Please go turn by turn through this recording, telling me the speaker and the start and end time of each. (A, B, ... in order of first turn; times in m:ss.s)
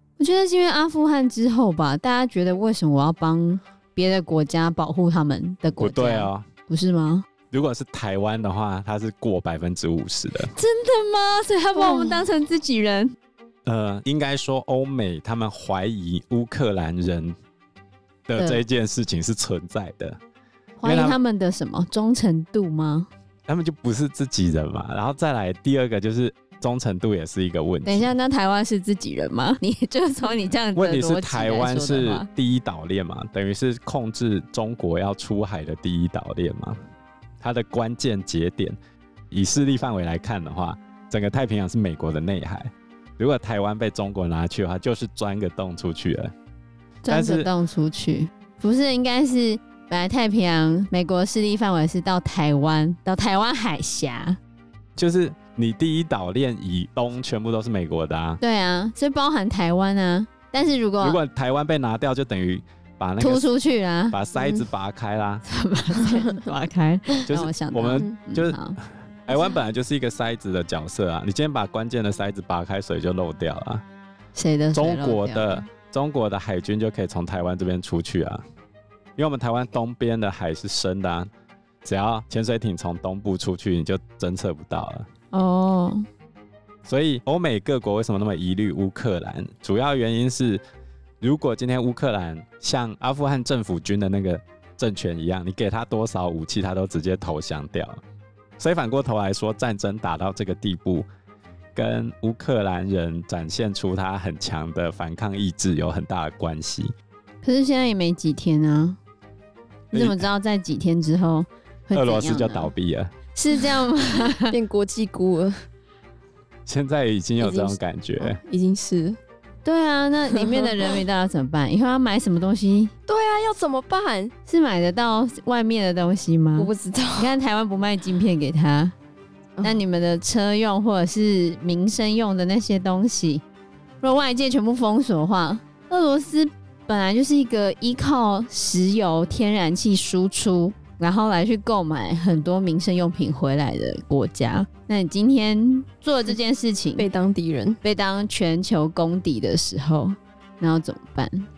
0:00.2-0:07.3 A
0:05.8-0:06.5 B
0:07.5-0:10.5 B
0:10.5-0:13.2 A
0:11.8-0:12.3 C
0:13.7-0:17.4 B
0:18.3-0:20.2 B
0:20.8-0:23.1 A
0:20.8-0:21.2 B
0:23.5-0:28.1 B
0:27.8-0:32.3 A
0:30.8-0:36.8 B
0:37.4-0:38.8 B
0:39.3-0:46.3 B
0:47.0-0:54.4 A
0:47.1-0:47.5 B
0:55.0-0:58.4 B
0:58.4-1:01.2 A
1:01.0-1:03.5 B
1:03.2-1:04.2 A
1:04.1-1:05.4 B
1:04.4-1:04.6 C
1:05.4-1:08.8 A
1:06.0-1:06.4 C
1:07.3-1:08.6 B
1:09.3-1:13.8 B
1:14.4-1:15.6 A
1:14.7-1:18.4 B
1:19.2-1:21.3 B
1:21.8-1:25.1 B
1:25.3-1:26.1 A
1:26.9-1:30.6 B
1:31.2-1:38.0 B
1:38.6-1:41.1 B
1:41.8-1:46.9 B
1:47.4-1:49.0 A
1:49.9-1:50.3 B
1:49.9-1:52.7 A
1:51.9-1:53.1 B
1:53.4-1:54.6 A
1:54.5-1:55.6 C
1:56.7-1:58.4 B
1:57.4-1:59.2 C
1:59.6-2:02.9 A
2:00.4-2:01.0 C
2:03.1-2:04.3 C
2:04.5-2:08.9 A
2:06.6-2:07.3 C
2:09.6-2:13.4 A
2:14.0-2:27.1 A
2:27.0-2:27.8 C
2:27.8-2:31.5 A